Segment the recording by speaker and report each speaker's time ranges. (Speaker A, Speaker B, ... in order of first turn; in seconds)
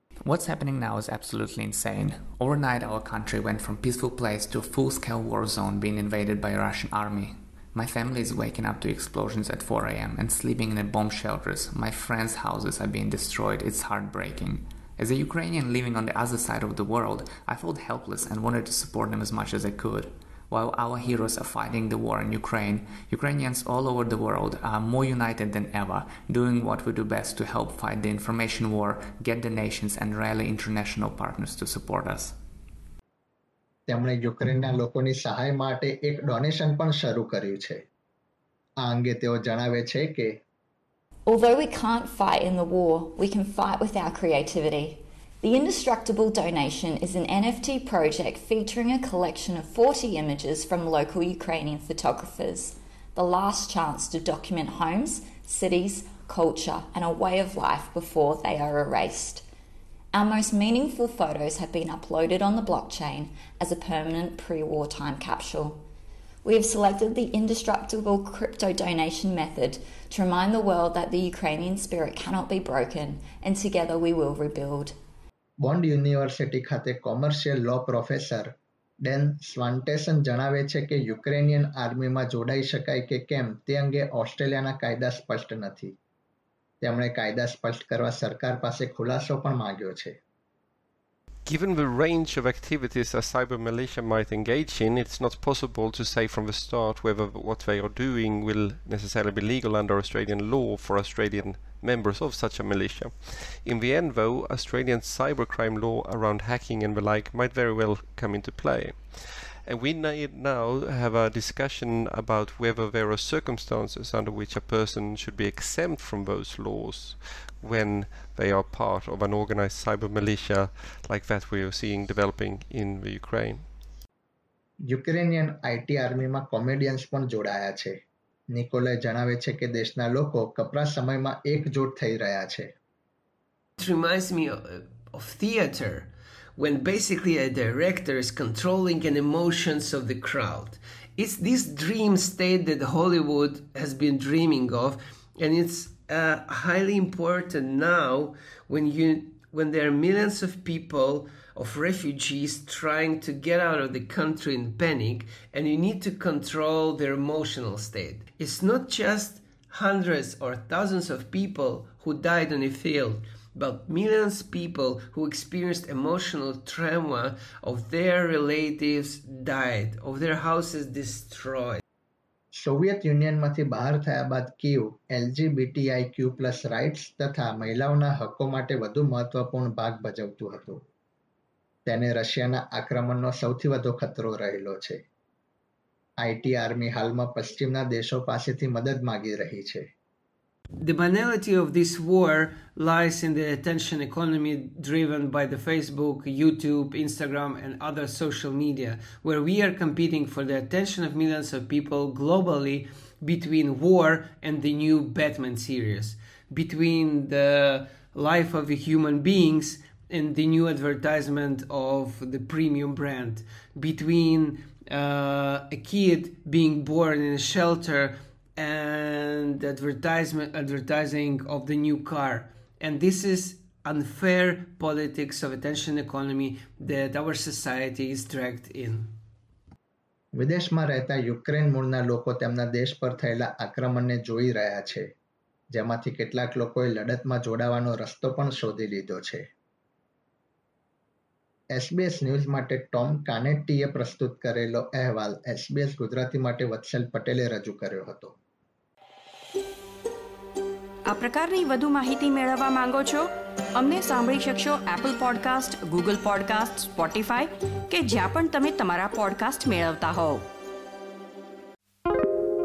Speaker A: 0.2-32.4
Speaker B: 33.9-37.8, 38.8-40.4, 75.6-85.9, 86.8-90.2, 124.9-127.9, 128.5-132.7, 172.5-180.8, 181.8-185.0, 186.2-189.8, 230.3-235.1, 235.7-239.4, 241.7-248.3
Speaker C: 41.3-59.4, 60.1-65.8, 66.4-74.9
Speaker D: 91.5-123.7
Speaker E: 133.8-171.8, 190.8-229.1
Speaker F: 251.1-253.2, 253.8-260.4